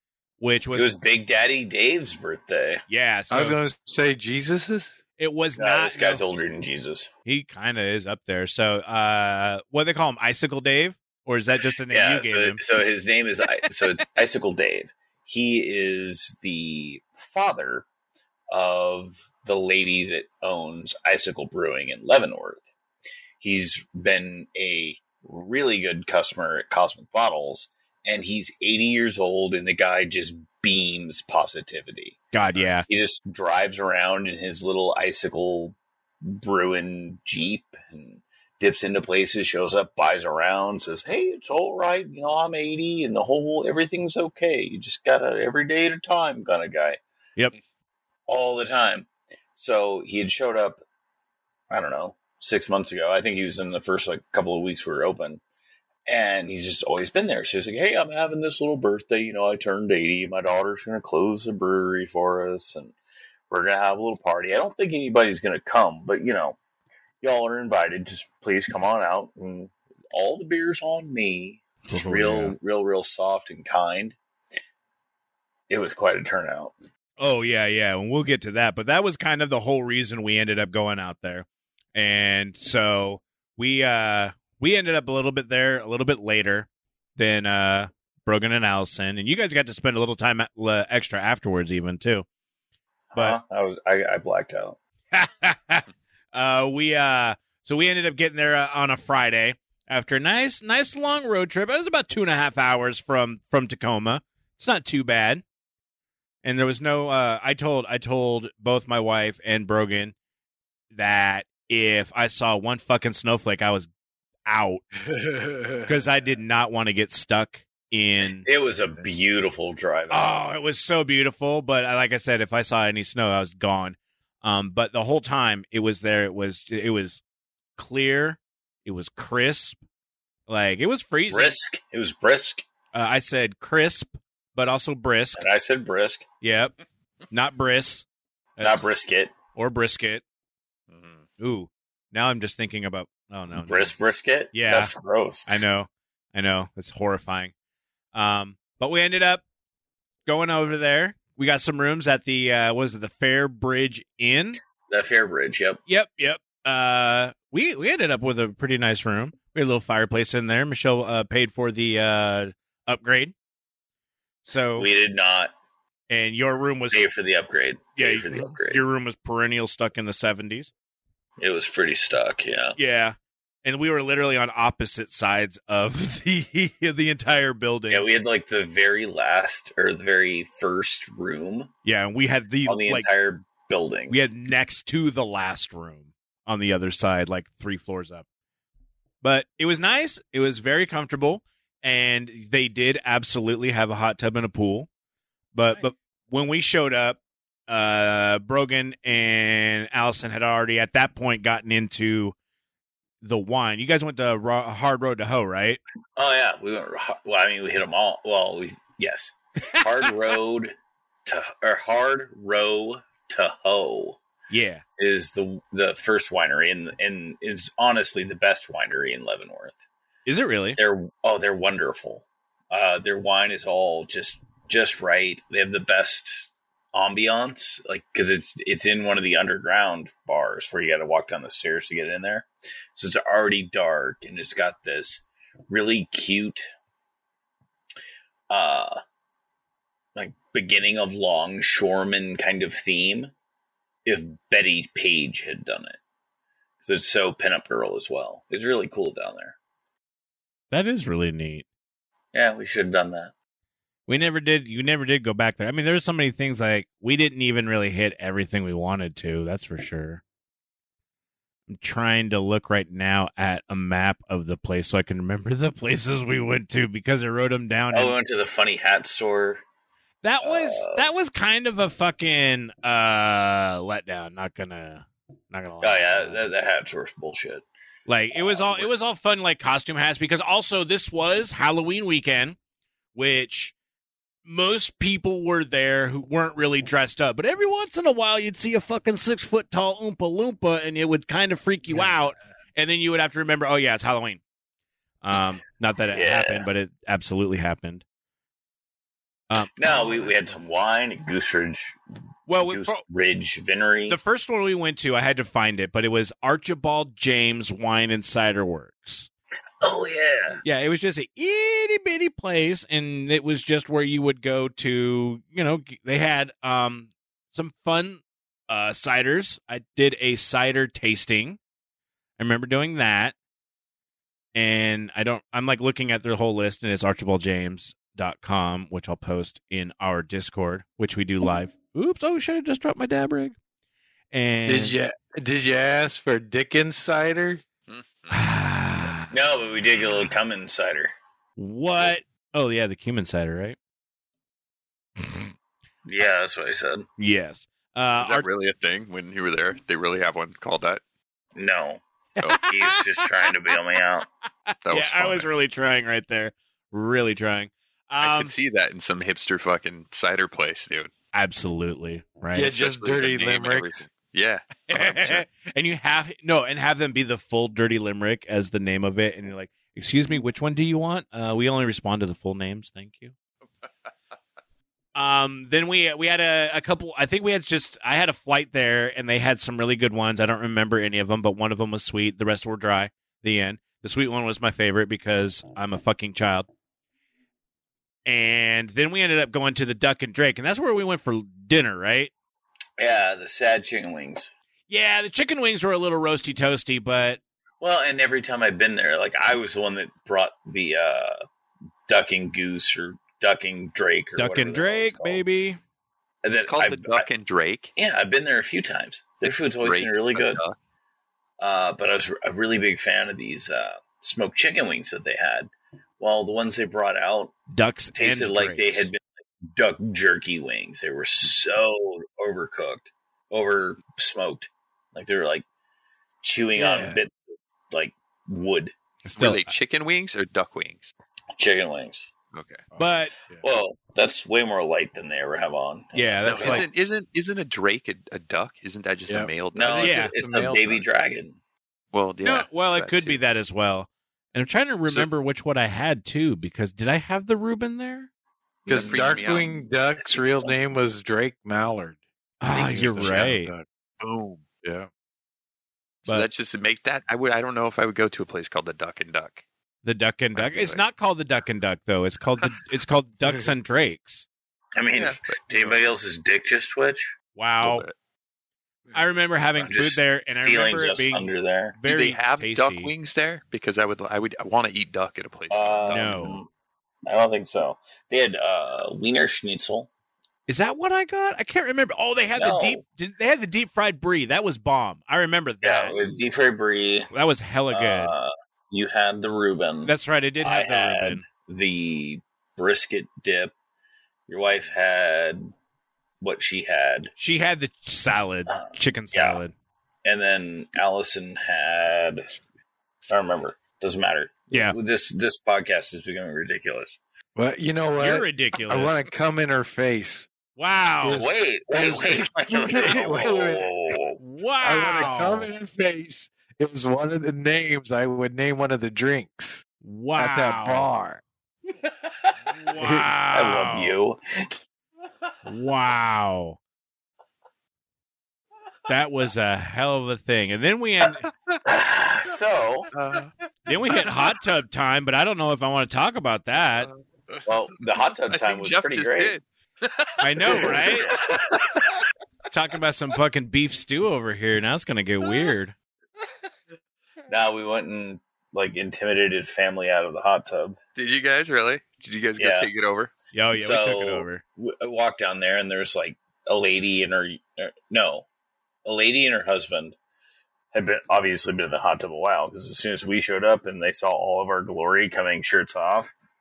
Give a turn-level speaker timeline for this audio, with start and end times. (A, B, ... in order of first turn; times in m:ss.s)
0:00.4-0:00.9 A
0:00.7-0:02.8 B
0:02.9-0:03.6 A
0:03.3-0:05.0 C
0:05.2-0:06.2 A
0:05.6-0:07.1 B
0:07.3-0:12.6 A
0:11.9-0:17.9 B
0:18.5-0:22.6 B
0:23.4-0:47.0 B
0:32.3-0:32.9 A
0:48.3-0:50.8 B
0:51.7-0:55.4 B
0:56.1-1:03.0 B
1:03.5-1:06.6 B
1:07.2-1:14.2 B
1:11.9-1:12.6 A
1:15.7-1:16.8 B
1:17.2-1:32.2 A
1:33.1-1:34.8 B
1:35.1-1:45.4 A
1:46.4-1:50.1 A
1:50.9-1:53.9 A
1:54.5-1:54.8 A
1:55.2-1:55.9 C
1:55.8-1:58.5 A
1:58.4-2:00.4 B
2:00.1-2:07.2 A
2:07.8-2:09.8 A
2:10.5-2:11.6 A
2:11.3-2:12.6 B
2:12.9-2:15.5 A
2:15.4-2:16.2 B
2:16.4-2:16.7 A
2:17.3-2:18.1 A
2:18.6-2:18.9 A
2:18.6-2:19.3 B
2:19.6-2:20.2 A
2:20.9-2:21.2 D
2:21.4-2:23.9 A
2:23.6-2:25.5 B
2:24.5-2:24.9 A
2:25.5-2:27.5 A
2:28.1-2:29.4 A
2:30.3-2:34.6 A
2:34.9-2:35.8 B
2:35.9-2:43.3 A
2:44.4-2:44.9 A
2:44.8-2:45.5 B
2:46.1-2:47.1 A
2:46.9-2:48.8 B
2:48.0-2:50.7 A
2:51.4-2:52.8 B
2:52.8-2:58.1 A
2:57.9-3:01.7 B
3:01.8-3:03.1 A
3:02.7-3:04.2 B
3:04.1-3:08.2 A
3:09.2-3:14.9 A
3:15.5-3:22.4 A
3:23.2-3:25.8 A
3:26.2-3:30.7 B
3:31.3-3:34.2 B
3:34.5-3:34.8 A
3:35.0-3:39.8 B
3:40.3-3:40.8 A
3:40.8-3:56.7 B
3:58.5-3:59.0 B
4:00.2-4:03.3 B
4:04.0-4:06.0 B
4:06.8-4:09.6 B
4:10.7-4:11.6 A
4:12.3-4:13.3 B
4:14.1-4:20.2 A
4:21.7-4:28.2 A
4:27.9-4:29.6 B
4:30.2-4:36.4 A
4:30.4-4:31.1 B
4:35.8-4:37.7 B
4:38.1-4:42.6 A
4:38.3-4:38.9 B
4:43.2-4:43.7 A
4:44.5-4:54.4 A
4:55.2-4:58.0 A
4:56.1-4:56.7 B
4:59.5-5:00.3 A
4:59.8-5:02.0 B
5:02.5-5:03.0 A
5:02.6-5:04.2 B
5:04.1-5:09.3 A
5:09.8-5:10.6 B
5:10.6-5:21.6 A
5:22.4-5:23.3 A
5:24.6-5:33.6 A
5:34.3-5:35.0 A
5:34.7-5:37.6 C
5:37.9-5:38.4 D
5:38.3-5:39.3 A
5:39.3-5:41.1 B
5:41.6-5:43.8 A
5:45.2-5:45.5 A
5:46.0-5:47.1 B
5:47.2-5:48.5 A
5:48.2-5:51.0 D
5:51.6-5:52.0 B
5:52.4-5:53.2 A
5:52.6-5:54.3 B
5:54.7-5:58.5 A
5:54.8-5:55.5 D
5:58.2-6:01.1 D
6:01.3-6:02.7 A
6:02.6-6:04.0 C
6:02.6-6:05.4 D
6:04.9-6:13.3 A
6:15.2-6:26.7 A
6:28.3-6:32.3 A
6:33.0-6:34.5 B
6:34.9-6:37.4 A
6:37.8-6:41.4 B
6:42.1-6:45.4 B
6:44.4-6:45.8 A
6:46.4-6:47.3 B
6:46.5-6:47.9 D
6:48.0-6:50.6 B
6:49.5-6:50.8 D
6:51.6-6:57.6 B
6:57.7-6:59.1 A
6:58.1-7:05.6 B
7:06.4-7:07.4 B
7:06.8-7:07.2 C
7:07.9-7:09.0 B
7:09.3-7:09.6 A
7:09.4-7:11.1 D
7:11.6-7:12.3 B
7:12.5-7:12.8 D
7:12.9-7:13.6 C
7:13.0-7:13.3 A
7:13.6-7:16.8 B
7:16.1-7:16.9 A
7:16.4-7:20.1 D
7:19.3-7:21.1 C
7:19.8-7:21.6 B
7:20.0-7:20.7 A
7:22.1-7:23.4 D
7:22.4-7:28.3 A
7:28.9-7:32.2 C
7:28.9-7:29.6 B
7:28.9-7:29.7 D
7:30.2-7:30.7 B
7:32.6-7:33.7 A
7:32.7-7:33.8 C
7:34.2-7:34.7 D
7:34.7-7:35.1 C
7:36.2-7:39.6 D
7:40.0-7:44.5 A
7:40.6-7:41.0 D
7:45.0-7:47.3 B
7:45.1-7:46.0 D
7:47.6-7:48.0 A
7:47.8-7:48.2 D
7:49.1-7:53.1 A
7:49.8-7:52.0 B
7:52.0-7:56.4 D
7:55.7-7:56.7 B
7:56.1-7:56.6 A
7:57.2-8:00.1 B
8:00.7-8:06.2 A
8:02.6-8:03.0 B
8:05.8-8:07.3 B
8:07.3-8:08.3 A
8:07.9-8:13.7 B
8:10.1-8:11.5 A
8:14.5-8:15.7 B
8:16.4-8:17.3 B
8:17.4-8:19.7 A
8:18.7-8:19.6 B
8:20.2-8:22.5 B
8:23.3-8:27.2 B
8:24.7-8:25.0 A
8:27.6-8:30.5 C
8:28.2-8:29.1 A
8:30.8-8:31.5 A
8:31.2-8:33.9 C
8:31.3-8:34.4 B
8:34.4-8:35.7 A
8:34.8-8:39.8 C
8:40.0-8:41.1 A
8:40.4-8:41.4 C
8:42.8-8:44.2 A
8:43.5-8:44.7 B
8:45.7-8:46.8 A
8:49.1-8:51.4 A
8:51.8-8:53.1 B
8:53.2-8:53.5 D
8:53.9-8:57.1 A
8:57.0-8:57.7 D
8:57.7-8:59.6 B
8:58.5-9:02.0 D
9:00.4-9:01.3 A
9:00.8-9:01.4 B
9:02.7-9:05.9 A
9:07.5-9:11.0 B
9:11.2-9:13.3 D
9:12.6-9:12.9 B
9:13.5-9:14.6 A
9:13.7-9:18.5 B
9:19.0-9:20.2 B
9:20.9-9:26.3 B